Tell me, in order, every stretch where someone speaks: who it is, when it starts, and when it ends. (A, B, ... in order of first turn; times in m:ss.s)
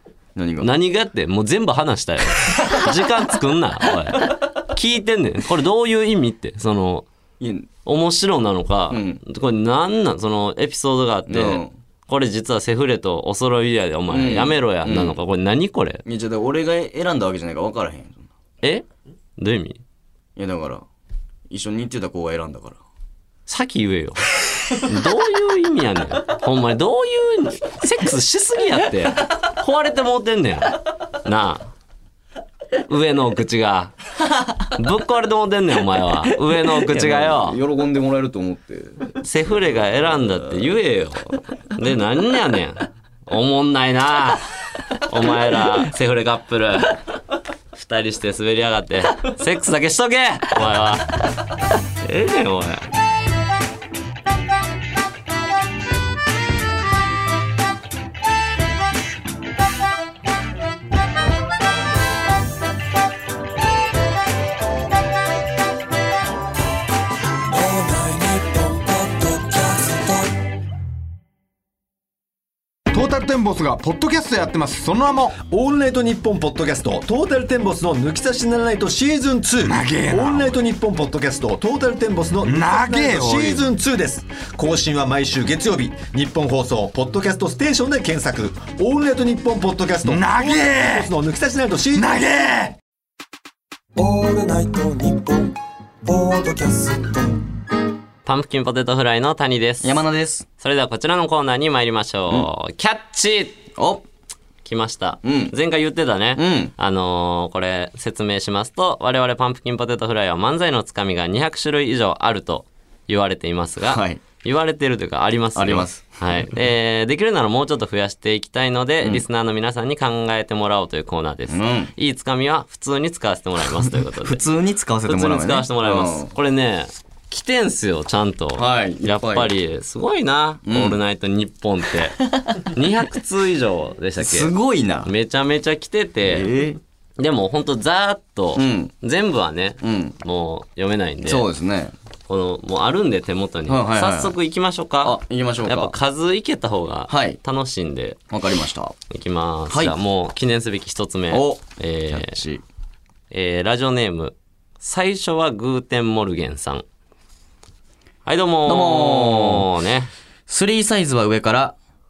0:00.4-0:00.7 A
0:00.6-0:07.1 B
0:07.4-0:07.7 A
0:07.8-0:16.0 B
0:08.9-0:09.2 A
0:11.3-0:11.7 A
0:14.1-0:15.2 A
0:16.0-0:18.3 A
0:19.4-0:19.8 B
0:20.4-0:20.8 A
0:21.5-0:22.8 A
0:23.5-0:31.7 B
0:32.8-0:33.9 B
0:34.7-0:37.6 B
0:36.6-0:39.1 A
0:39.2-0:47.0 B
0:47.7-0:51.2 B
0:52.0-0:52.9 B
1:07.5-1:10.3 C
1:12.9-1:32.2 D
1:19.6-1:20.6 E
1:22.4-1:23.7 E
1:30.0-1:31.1 E
1:32.0-1:32.7 E
1:34.0-1:37.5 C
1:38.2-1:40.0 B
1:39.8-1:40.5 A
1:40.6-1:43.6 B
1:43.8-1:44.0 A
1:44.6-2:04.4 B
1:45.2-1:45.5 A
1:46.4-1:46.7 A
1:53.8-1:54.2 A
1:55.6-1:56.4 A
2:01.5-2:01.9 A
2:03.8-2:06.3 A
2:05.1-2:14.5 B
2:08.6-2:09.5 A
2:10.6-2:11.0 A
2:12.3-2:12.7 A
2:14.2-2:15.1 A
2:15.0-2:16.5 B
2:16.2-2:16.8 A
2:17.2-2:21.5 B
2:18.6-2:18.9 A
2:19.8-2:20.2 A
2:21.2-2:21.9 A
2:22.3-2:28.2 B
2:23.7-2:24.4 A
2:25.0-2:26.0 A
2:27.1-2:27.4 A
2:28.3-2:29.0 A
2:29.1-2:32.4 B
2:29.7-2:30.0 A
2:31.3-2:32.6 A
2:33.3-2:36.8 B
2:38.2-2:40.1 B
2:38.7-2:39.7 A
2:40.5-2:41.8 A